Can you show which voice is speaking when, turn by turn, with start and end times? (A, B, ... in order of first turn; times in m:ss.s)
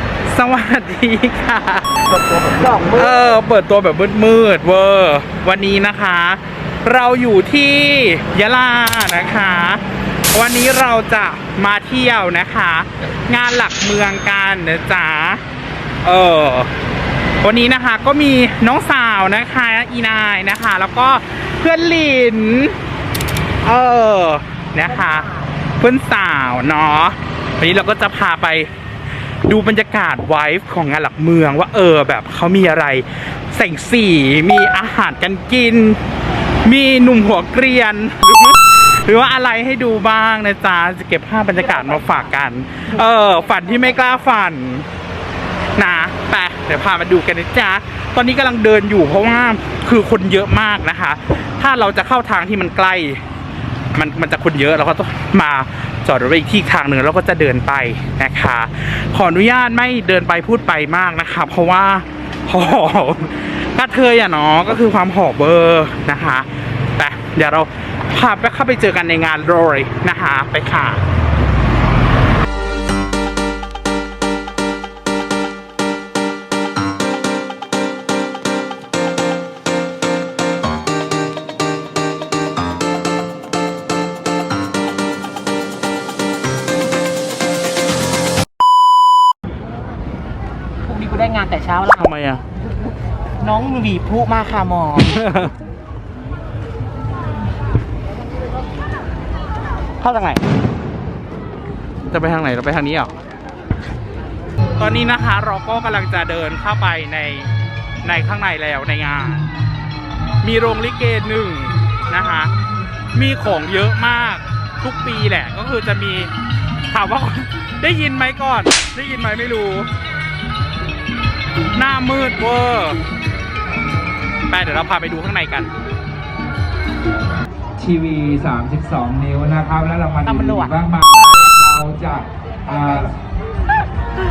0:00.3-0:02.0 A
0:02.8-0:15.4 A
0:16.0-0:16.7 A
0:17.4-0:22.8 A
0:23.6-0:28.7 A
0:24.9-0:25.5 B
0:29.4-0:36.0 A
0:36.6-0:44.9 A
0:41.8-0:42.2 B
0:45.8-0:53.2 A
0:54.0-1:11.0 A
1:30.8-1:32.1 B
1:31.9-1:32.4 A
1:33.4-1:35.2 B
1:35.0-1:35.5 A
1:40.0-1:40.4 A
1:42.1-1:43.1 A
1:44.8-1:47.5 A
1:48.0-1:49.5 A
1:50.4-1:52.5 A
1:53.2-1:56.3 A
1:56.9-1:59.9 A
2:01.7-2:03.0 A
2:04.5-2:05.7 A
2:07.8-2:13.1 C
2:10.2-2:10.8 B